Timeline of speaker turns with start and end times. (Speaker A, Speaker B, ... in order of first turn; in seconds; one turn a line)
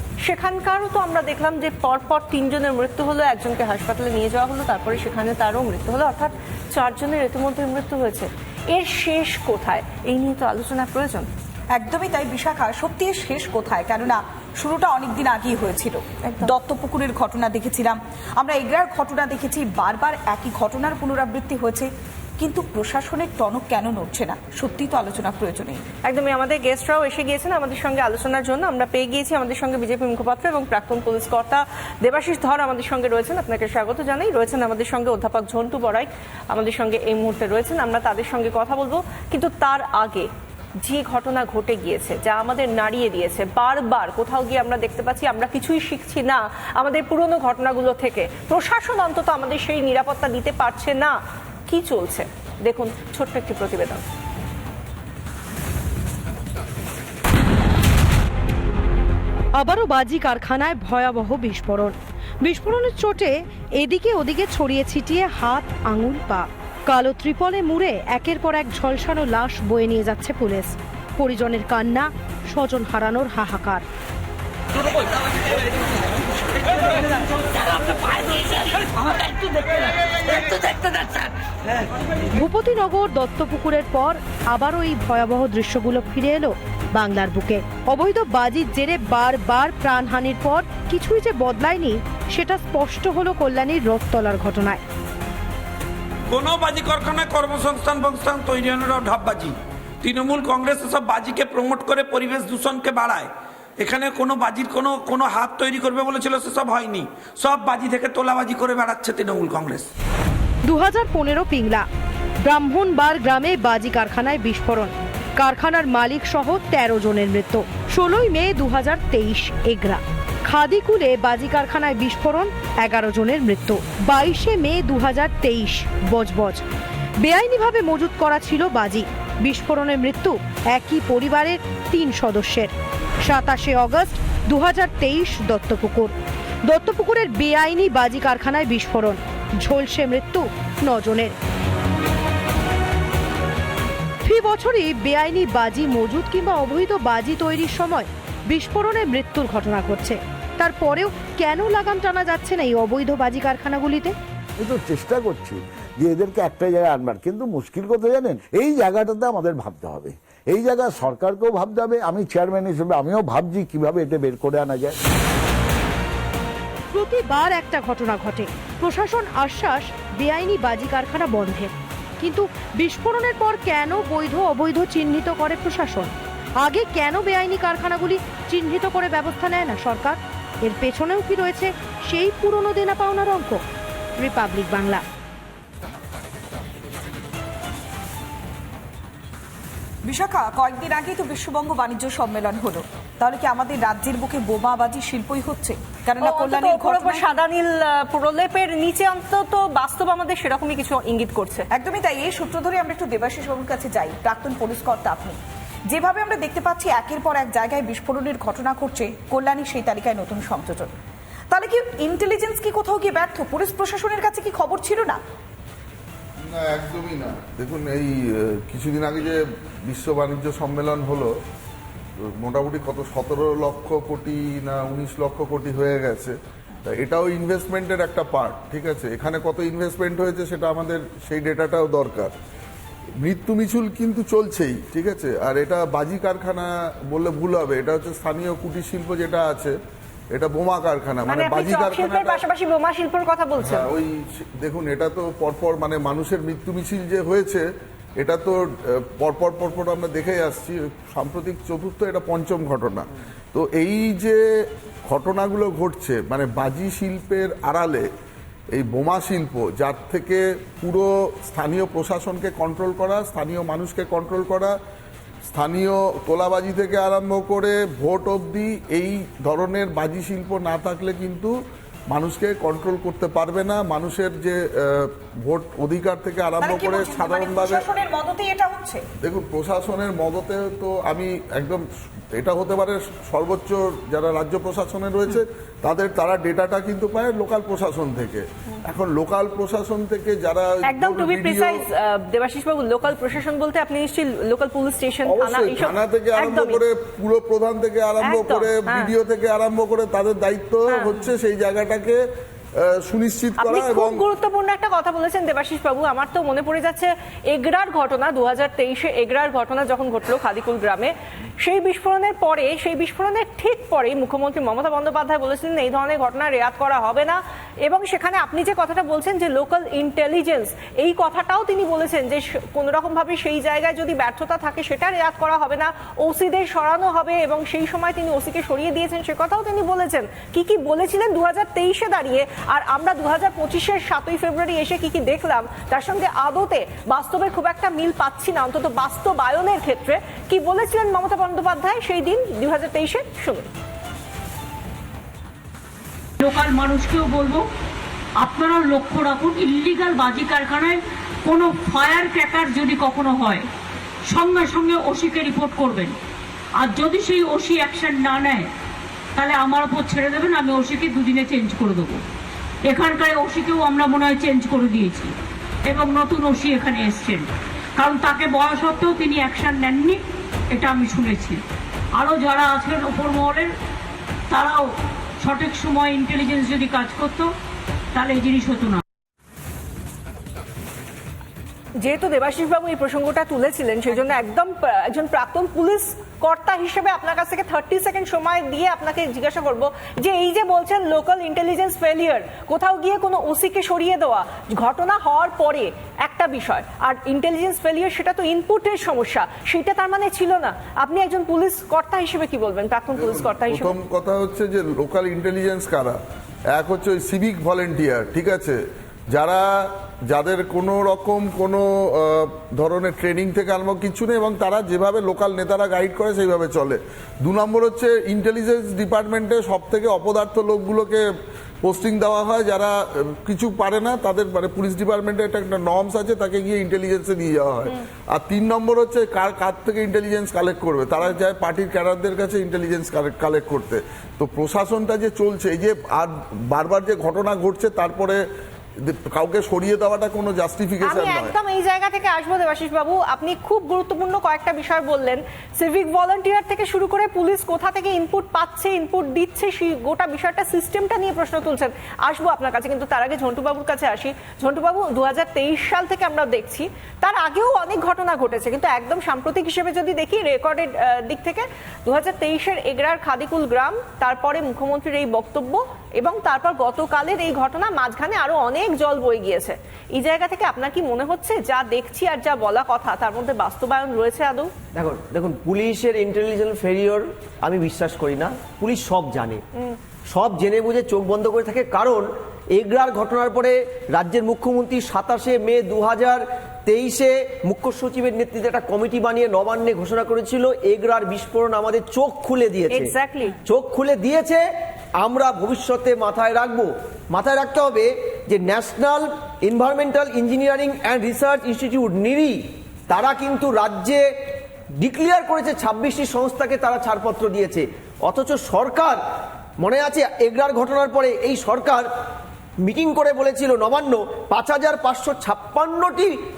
Speaker A: 0.2-11.3
Speaker B: 11.7-25.8
Speaker A: 26.1-54.0
Speaker C: 59.6-73.8
Speaker C: 82.4-94.8
Speaker D: 96.3-99.5
Speaker D: 100.0-103.3
Speaker D: 103.8-109.8
Speaker C: 110.6-111.9
Speaker C: 112.4-126.6
Speaker C: 127.2-132.7
Speaker C: 133.2-136.1
Speaker C: 136.7-141.3
Speaker C: 144.2-154.1
Speaker E: 154.6-165.0
Speaker C: 166.9-183.6
Speaker C: 184.2-185.0
Speaker B: 190.0-197.3
Speaker A: 196.2-201.7
Speaker B: 201.7-210.9
Speaker B: 211.5-215.2
Speaker F: 216.5-221.3
Speaker F: 222.4-232.3
Speaker F: 233.2-239.8
Speaker F: 240.3-242.4
Speaker A: 241.3-243.9
Speaker F: 243.6-247.6
Speaker F: 248.2-254.4
Speaker F: 255.1-258.1
Speaker F: 258.7-264.8
Speaker F: 265.5-271.5
Speaker F: 272.1-277.9
Speaker B: 276.6-279.0
Speaker F: 279.2-281.8
Speaker F: 282.4-291.9
Speaker A: 290.9-296.8
Speaker F: 295.2-302.2
Speaker A: 298.2-299.1
Speaker A: 300.9-301.1
Speaker F: 302.8-304.3
Speaker A: 303.6-343.7
Speaker G: 346.4-347.7
Speaker G: 348.4-353.7
Speaker G: 354.3-356.2
Speaker G: 356.8-358.7
Speaker G: 359.4-362.2
Speaker G: 362.9-365.3
Speaker G: 365.9-370.2
Speaker G: 370.7-371.6
Speaker G: 372.2-373.7
Speaker G: 374.5-374.8
Speaker G: 375.4-377.5
Speaker G: 378.1-379.0
Speaker A: 382.0-404.0
Speaker F: 403.1-406.2
Speaker F: 406.8-408.8
Speaker F: 409.3-421.2
Speaker F: 421.8-438.4
Speaker F: 439.1-441.6
Speaker A: 441.0-474.7
Speaker H: 474.9-479.6
Speaker H: 480.3-493.1
Speaker A: 492.9-493.6
Speaker H: 493.6-494.6
Speaker H: 495.2-504.3
Speaker H: 505.0-509.2
Speaker H: 509.8-512.1
Speaker H: 512.8-516.4